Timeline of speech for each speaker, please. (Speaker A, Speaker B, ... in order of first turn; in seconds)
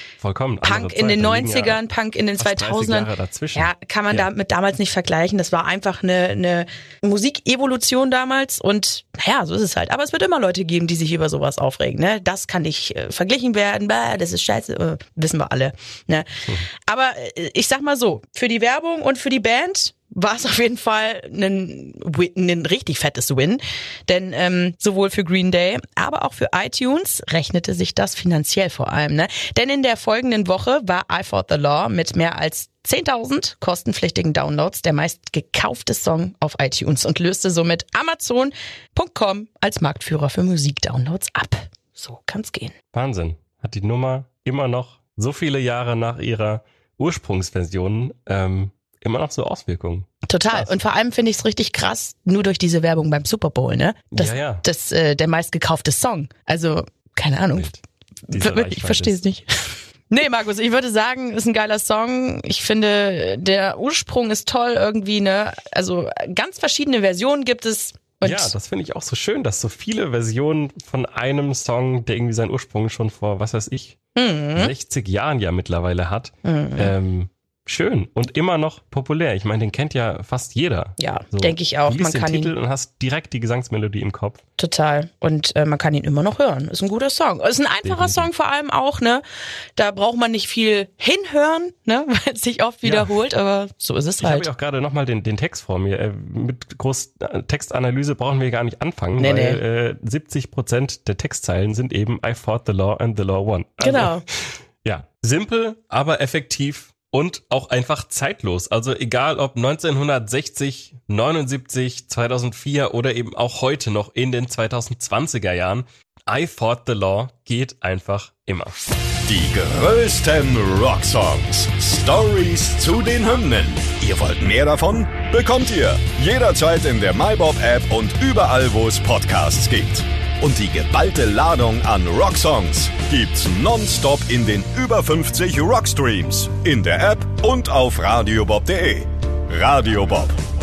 Speaker A: 0.2-1.8, 2.4-4.3, 42.9-50.8, 54.1-54.6, 57.5-59.2, 68.2-74.0, 74.6-84.4, 87.8-88.3, 92.8-93.1, 94.2-104.2, 104.8-118.8
Speaker B: 0.6-16.3, 16.9-42.7, 50.3-57.7, 58.3-68.5, 74.2-74.7, 76.4-76.9, 81.0-82.5, 84.6-89.2, 89.8-94.5, 99.2-99.6, 103.8-104.2
Speaker C: 119.2-140.4